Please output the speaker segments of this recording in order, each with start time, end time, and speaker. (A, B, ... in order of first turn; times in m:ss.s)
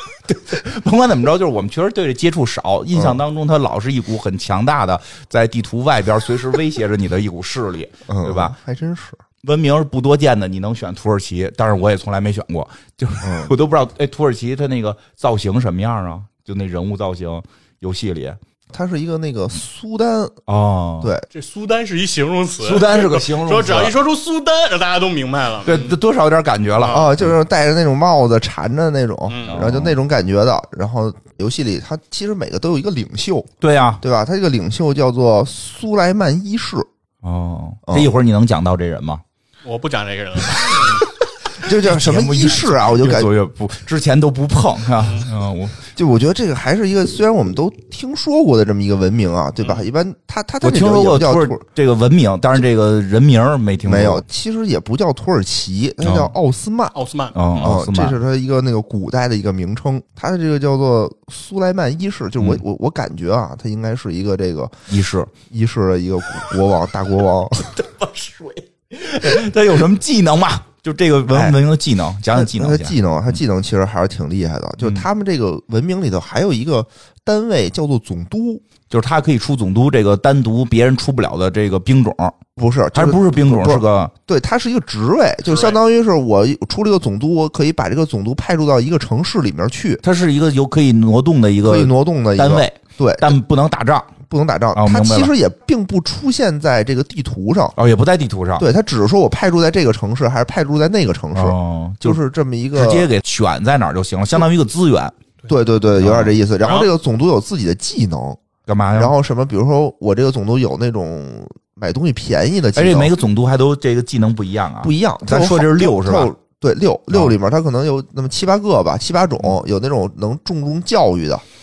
0:00.2-0:08.5 A
0:08.1-0:09.2 B
0:09.4-0:18.4 A
0:13.2-0:13.5 B
0:18.7-0:20.4 B
0:20.5-0:21.1 A
0:21.0-0:21.3 B
0:21.3-0:26.0 C
0:22.6-0:24.0 A
0:25.6-0:27.4 A
0:26.8-0:27.1 C
0:26.9-0:36.9 B
0:29.3-0:29.7 C
0:29.5-0:30.0 A
0:33.6-0:34.0 A
0:37.2-0:39.2 A
0:39.6-0:41.0 C
0:41.6-0:43.3 B
0:41.7-0:45.8 A
0:45.0-0:45.2 C
0:46.0-0:51.6 B
0:50.6-0:54.2 A
0:53.8-0:56.9 B
0:56.0-0:56.3 A
0:56.9-0:57.6 C
0:57.3-0:58.2 A
0:57.6-1:04.8 B
1:02.4-1:02.6 A
1:04.9-1:05.3 A
1:05.5-1:07.8 B
1:07.7-1:13.4 A
1:11.3-1:11.6 B
1:12.3-1:18.6 B
1:14.8-1:15.0 A
1:18.9-1:22.4 A
1:22.6-1:30.0 B
1:22.9-1:24.1 A
1:25.4-1:25.8 C
1:30.0-1:34.1 A
1:31.6-1:33.4 B
1:34.3-1:37.8 B
1:34.7-1:35.3 A
1:37.8-1:38.7 A
1:38.6-1:43.1 B
1:41.3-1:42.2 A
1:42.7-1:45.1 A
1:45.5-1:48.4 B
1:46.0-1:46.4 A
1:48.7-1:49.1 A
1:48.9-1:53.1 B
1:52.7-1:56.3 A
1:54.8-2:01.4 B